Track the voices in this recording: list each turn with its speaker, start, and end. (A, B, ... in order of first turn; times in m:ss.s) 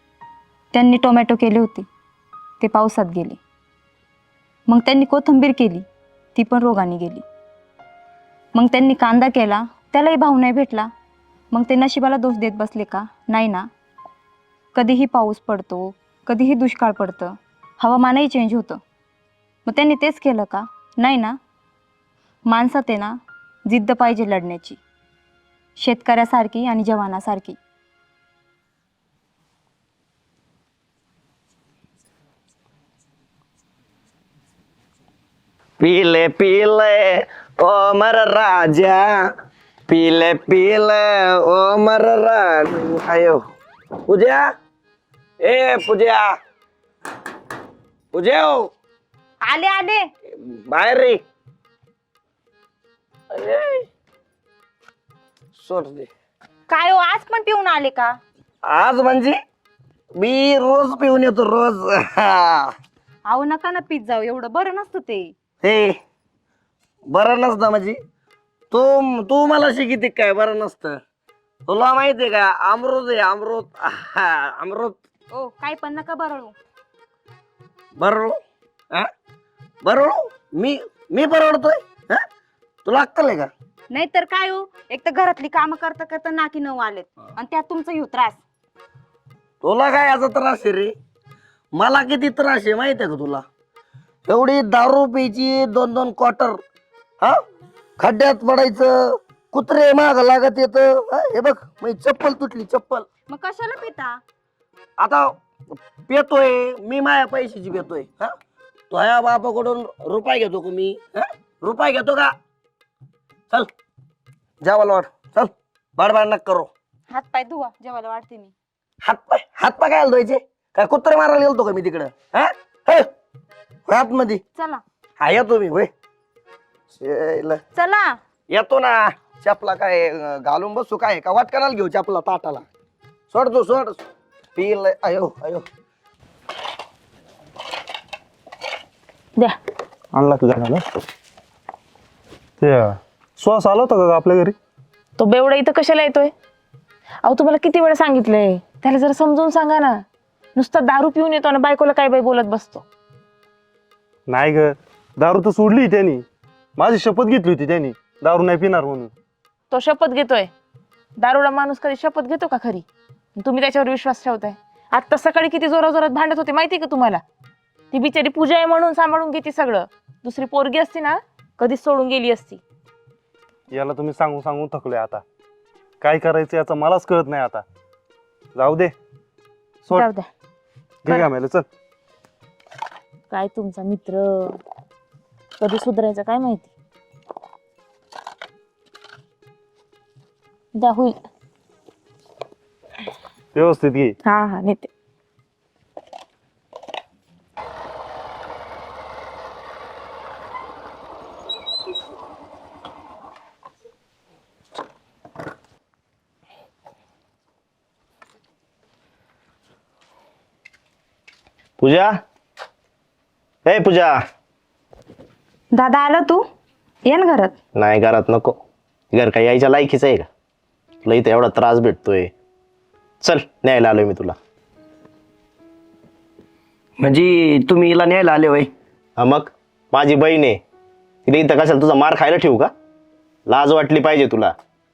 0:00.7-0:01.9 A
0:02.6-0:03.4 A
0:04.7-0:07.2 A
0:08.6-0:10.9 A
0:11.5-0:13.7 A
0:14.8-0:18.8 A
0:19.7-0:21.4 A
0:22.5-0:24.8 A
0:25.8-0:27.6 A
0:35.8-0:39.3 B
0:39.9-0:43.4 B
0:44.1-0:44.5 B
0:45.4-0:46.4 B
0:48.1-0:48.7 B
0:49.4-0:50.1 A
0:50.3-0:51.2 B
0:53.3-0:53.9 B
0:55.6-0:56.1 B
0:56.7-0:58.2 A
0:58.6-0:59.4 B
1:00.2-1:02.7 B
1:03.3-1:05.3 A
1:05.6-1:06.0 B
1:07.1-1:08.0 B
1:08.7-1:11.0 B
1:11.7-1:15.0 B
1:15.3-1:16.6 A
1:18.0-1:18.4 B
1:19.8-1:22.2 B
1:22.8-1:23.5 B
1:23.9-1:28.4 A
1:29.6-1:30.9 B
1:31.8-1:33.4 B
1:34.3-1:36.6 B
1:38.0-1:43.1 B
1:43.3-1:44.2 A
1:45.0-1:45.3 B
1:46.0-1:48.4 B
1:48.9-1:52.4 B
1:54.6-1:56.7 B
1:57.1-1:58.5 A
1:59.0-2:03.1 B
2:03.9-2:04.4 B
2:04.6-2:04.8 A
2:05.2-2:05.9 B
2:06.9-2:07.6 B
2:07.8-2:08.2 A
2:08.5-2:12.7 B
2:13.3-2:14.0 B
2:14.6-2:15.7 B
2:20.1-2:20.8 C
2:22.6-2:24.6 C
2:25.2-2:26.3 D
2:27.2-2:30.0 D
2:30.6-2:32.8 D
2:34.3-2:36.2 C
2:36.8-2:39.1 C
2:39.7-2:40.5 D
2:41.2-2:42.9 D
2:43.4-2:47.2 D
2:47.9-2:52.6 D
2:53.7-2:55.2 C
2:56.0-2:57.6 C
2:58.6-2:58.9 C
2:59.9-3:00.2 D
3:01.0-3:01.7 C
3:03.3-3:04.6 D
3:05.6-3:06.7 D
3:10.8-3:11.2 D
3:13.6-3:14.2 C
3:14.2-3:14.9 D
3:31.8-3:32.2 E
3:33.7-3:34.2 E
3:35.7-3:36.4 A
3:37.1-3:37.6 A
3:37.8-3:38.6 E
3:39.1-3:40.3 E
3:41.0-3:42.3 E
3:43.2-3:44.4 E
3:47.0-3:48.7 B
3:49.2-3:50.6 E
3:51.3-3:52.7 E
3:53.5-3:54.5 E